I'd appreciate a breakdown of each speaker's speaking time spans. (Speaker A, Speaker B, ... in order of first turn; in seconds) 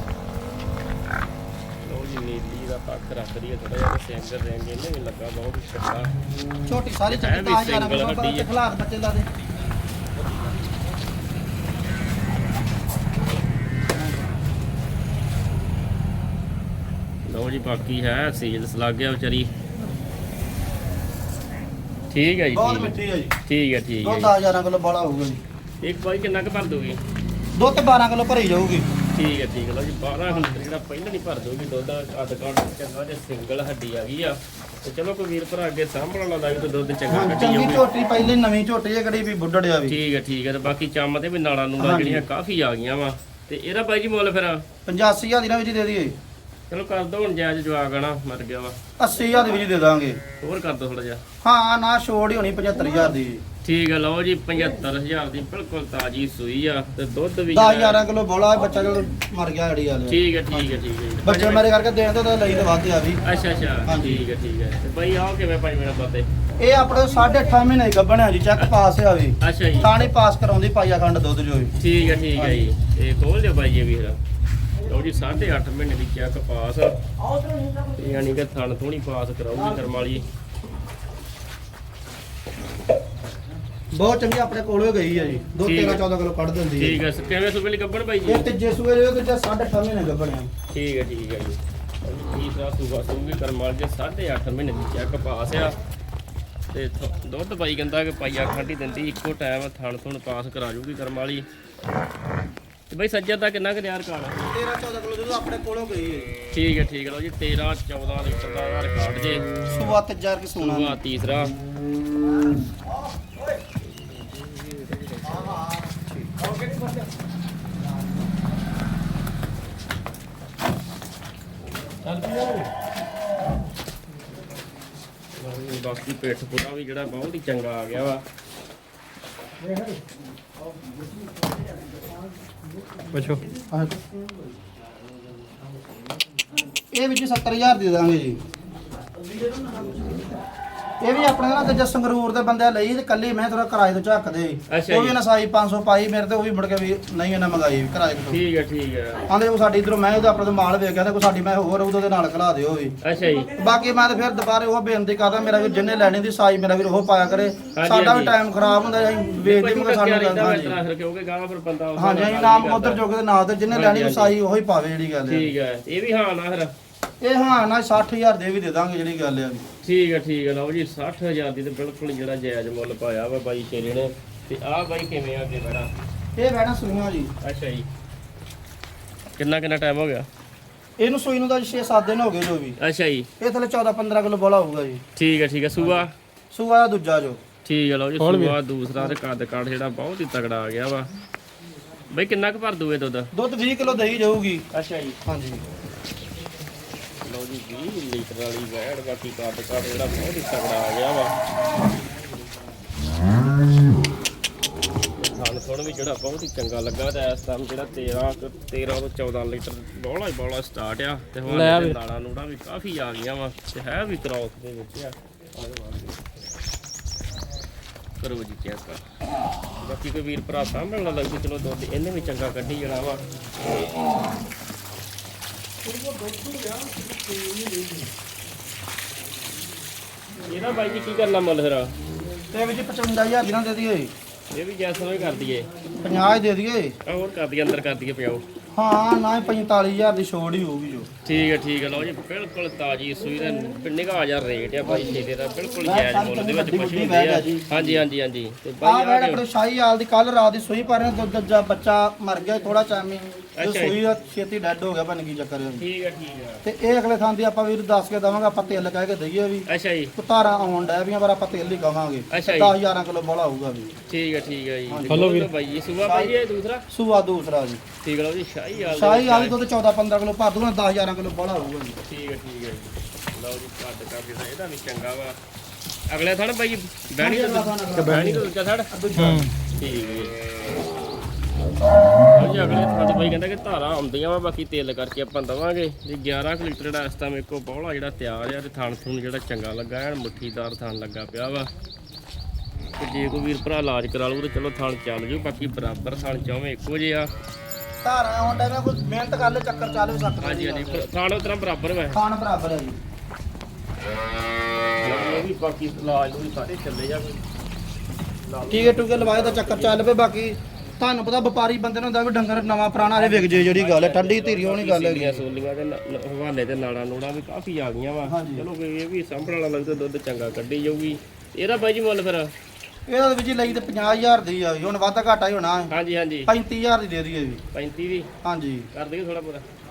Speaker A: 1.8-6.1, 7.1-8.5, 17.3-19.5, 22.1-24.3, 25.8-27.0, 29.1-37.8, 39.9-44.6, 46.7-48.8, 50.4-51.2, 53.6-58.0, 60.1-61.7, 63.2-66.2, 69.4-69.9, 71.8-74.2, 74.8-77.0, 78.0-80.2, 85.6-86.0, 86.8-88.5, 90.7-95.8, 96.7-101.5, 102.9-104.4, 106.5-109.5, 110.5-111.5, 125.3-128.2, 144.7-145.2, 148.3-149.2, 153.0-153.5, 157.7-158.3, 159.4-163.0, 163.7-164.3, 165.3-166.7, 169.8-175.9, 177.4-177.8, 179.4-180.2, 182.8-183.3, 185.2-186.1, 187.6-191.1, 192.1-193.3, 194.7-195.2, 197.2-201.3, 205.2-216.2, 218.2-219.0, 219.8-223.2, 230.4-231.9, 234.5-235.7, 237.0-238.4, 241.2-249.4, 253.6-254.0, 255.8-256.6, 259.7-260.1, 262.3-262.8, 264.1-266.9, 268.0-269.6, 272.1-275.4, 276.1-278.9, 279.8-280.3, 282.3-291.7, 293.0-297.3, 300.4-302.2, 305.0-307.4, 308.4-310.1, 313.1-322.5, 325.9-326.5, 327.7-328.3, 328.9-329.6
Speaker B: 6.7-9.3, 22.5-23.3, 24.0-25.4, 27.6-28.9, 30.3-30.6, 37.1-40.0, 41.8-42.2, 44.9-46.1, 49.0-50.2, 51.4-53.4, 57.5-63.2, 63.8-64.2, 66.6-71.8, 72.3-72.7, 77.3-77.9, 79.5-80.2, 83.9-87.0, 88.2-90.5, 104.5-106.3, 109.7-111.0, 112.3-113.4, 115.2-117.1, 117.8-118.2, 133.5-134.4, 136.9-138.4, 139.2-140.2, 141.0-148.4, 149.3-152.9, 153.6-160.8, 161.9-165.5, 167.2-169.6, 176.3-177.3, 181.0-182.8, 183.4-185.0, 186.5-187.4, 193.3-194.7, 195.2-195.6, 226.0-226.7, 232.5-234.1, 236.0-237.0, 238.7-241.1, 244.8-245.1, 245.8-248.0, 248.8-255.8, 256.6-259.6, 260.2-263.9, 264.9-265.3, 266.0-266.3, 266.9-267.8, 268.9-272.0, 277.2-278.3, 278.9-279.5, 298.0-301.0, 302.1-303.0, 308.7-315.4, 318.2-318.6, 323.1-325.9, 326.5-327.6, 328.4-328.9
Speaker C: 133.1-133.4, 188.2-188.6, 211.4-212.0, 265.1-265.5, 277.9-278.4, 279.2-279.5